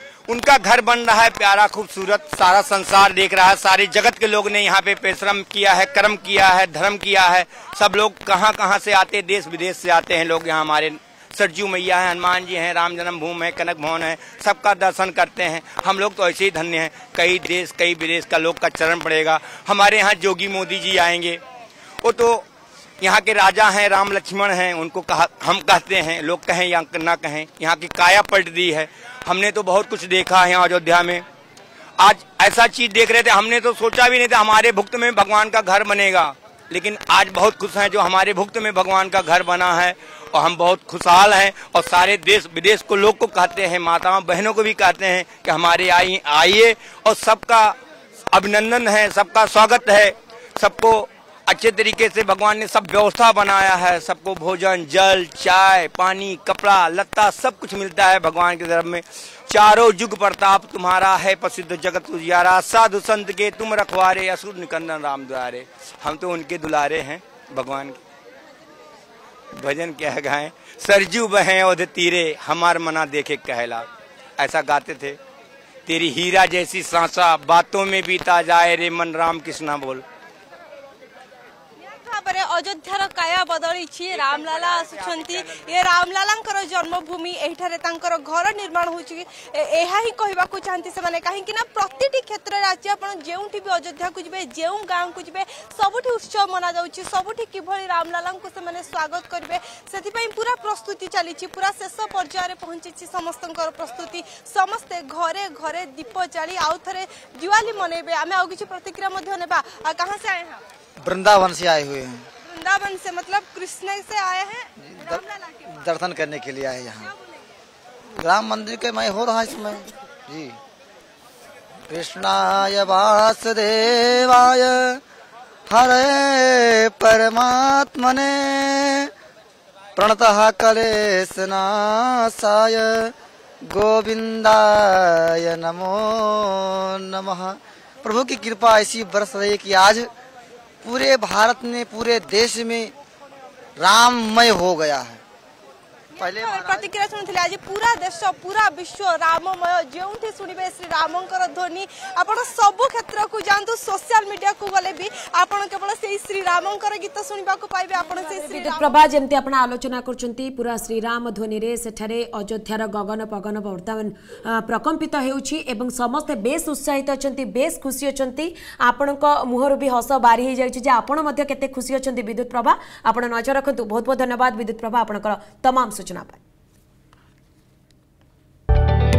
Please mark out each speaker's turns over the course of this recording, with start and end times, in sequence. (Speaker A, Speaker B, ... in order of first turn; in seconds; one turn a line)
Speaker A: 0.3-21.4
Speaker A: 22.0-22.4
Speaker A: 23.0-31.2
Speaker A: 32.0-47.7
Speaker A: 48.3-68.0
Speaker A: 69.5-73.8
Speaker A: 74.4-75.2
Speaker A: 75.8-80.0
Speaker B: 81.8-110.6
Speaker C: 111.0-112.3
Speaker B: 112.4-115.7
Speaker C: 114.8-117.1
Speaker C: 118.2-120.6
Speaker C: 121.9-125.0
Speaker C: 125.7-129.1
Speaker C: 129.9-140.1
Speaker C: 140.8-142.9
Speaker C: 143.8-145.2
Speaker B: 146.1-159.0
Speaker C: 146.2-146.9
Speaker D: 158.1-176.4